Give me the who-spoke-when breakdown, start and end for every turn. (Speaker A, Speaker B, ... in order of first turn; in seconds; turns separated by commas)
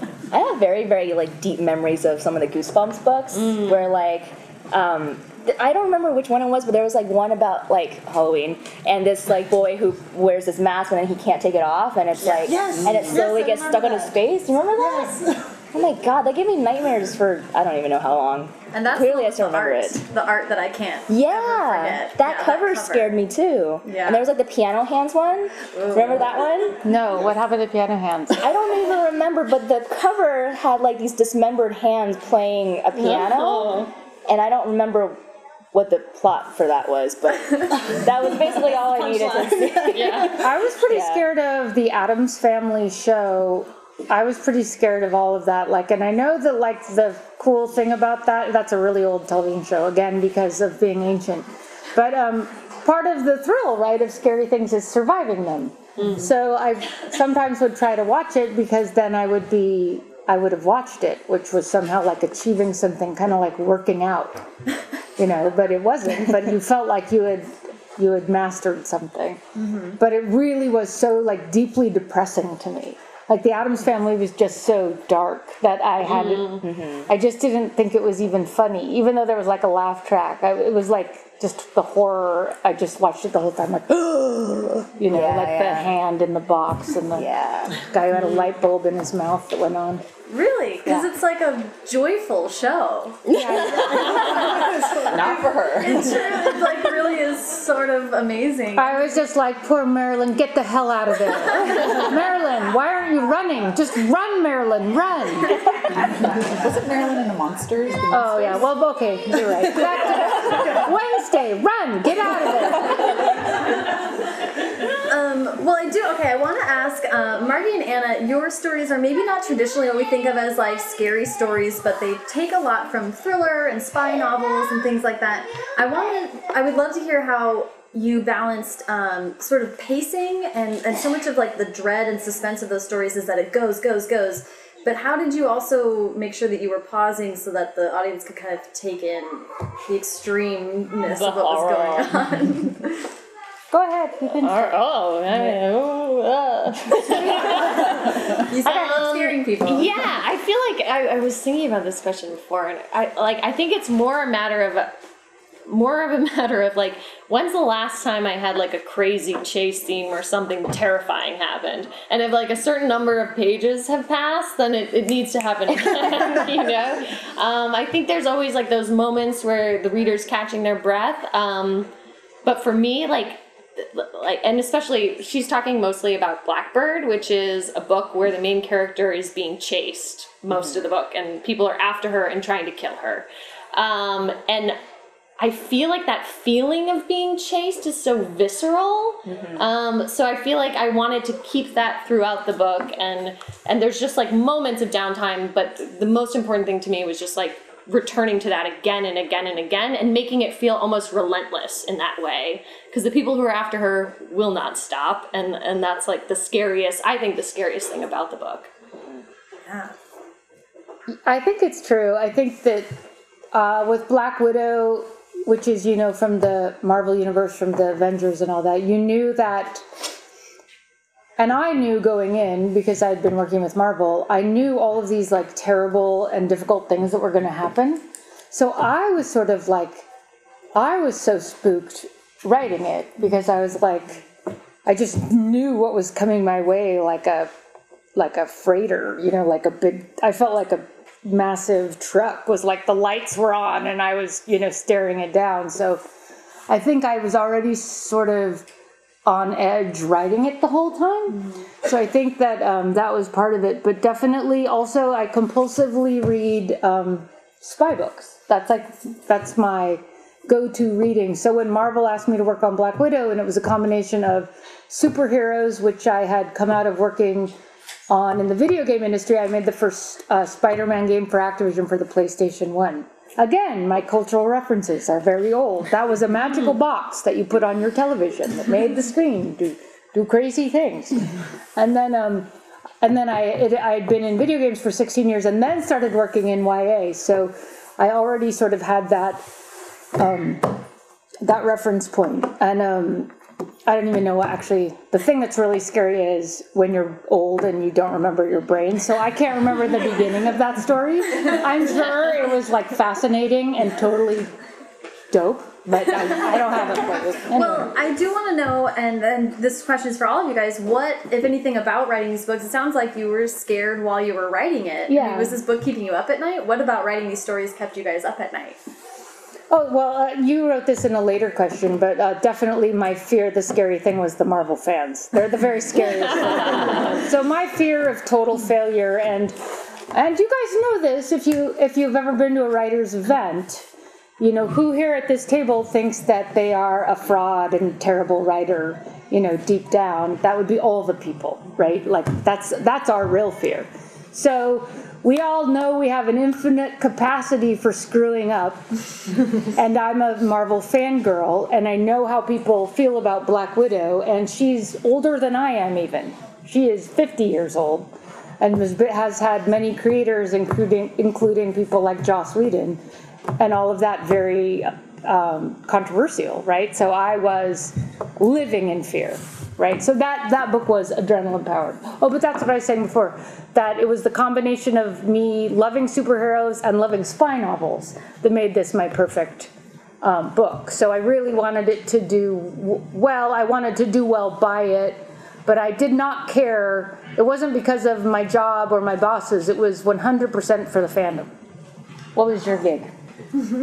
Speaker A: 0.3-15.2, Speaker B: 3.3-3.9, Speaker C: 12.3-14.1, Speaker D: 12.7-13.2, Speaker C: 14.8-15.5, Speaker A: 15.7-20.0, Speaker E: 18.7-23.2, Speaker A: 21.1-26.8, Speaker E: 23.9-24.3, Speaker E: 25.6-26.4, Speaker F: 26.8-28.5, Speaker A: 28.4-35.2, Speaker B: 33.0-33.9, Speaker A: 35.7-41.2, Speaker C: 37.9-40.2, Speaker B: 39.9-40.4, Speaker F: 40.3-64.5, Speaker B: 56.0-56.3, Speaker F: 65.2-69.4, Speaker E: 69.6-70.0, Speaker F: 70.0-90.0, Speaker B: 76.1-76.6, Speaker A: 76.6-77.1, Speaker A: 85.1-85.9, Speaker A: 87.2-87.8, Speaker E: 90.3-93.2, Speaker B: 93.3-94.7, Speaker F: 93.3-94.4, Speaker C: 93.6-95.5, Speaker D: 95.0-96.5, Speaker E: 95.8-99.2, Speaker F: 98.8-105.6, Speaker E: 101.5-102.0, Speaker D: 106.1-108.7, Speaker F: 108.1-113.3, Speaker E: 115.0-143.1, Speaker B: 141.1-142.1, Speaker F: 143.7-144.8, Speaker B: 144.4-154.9, Speaker F: 145.3-145.6, Speaker E: 147.0-149.9, Speaker F: 148.6-148.9, Speaker B: 155.7-171.9, Speaker B: 172.4-184.8, Speaker B: 185.4-208.7, Speaker A: 189.3-189.6, Speaker E: 209.7-209.9, Speaker F: 211.3-212.9, Speaker F: 213.5-220.0, Speaker F: 221.4-230.1, Speaker F: 230.8-234.2, Speaker F: 234.9-237.5, Speaker F: 238.2-246.0, Speaker F: 246.7-248.7, Speaker F: 249.3-267.5, Speaker F: 268.1-282.5, Speaker F: 283.0-289.4, Speaker F: 290.2-290.8, Speaker F: 291.4-293.3, Speaker F: 293.9-304.5, Speaker F: 305.3-307.9, Speaker E: 307.5-318.8, Speaker F: 315.1-315.6, Speaker F: 319.7-329.6, Speaker B: 326.4-327.1, Speaker F: 330.1-348.8, Speaker F: 349.6-363.0, Speaker F: 363.6-379.7, Speaker F: 380.2-391.5, Speaker F: 392.4-393.1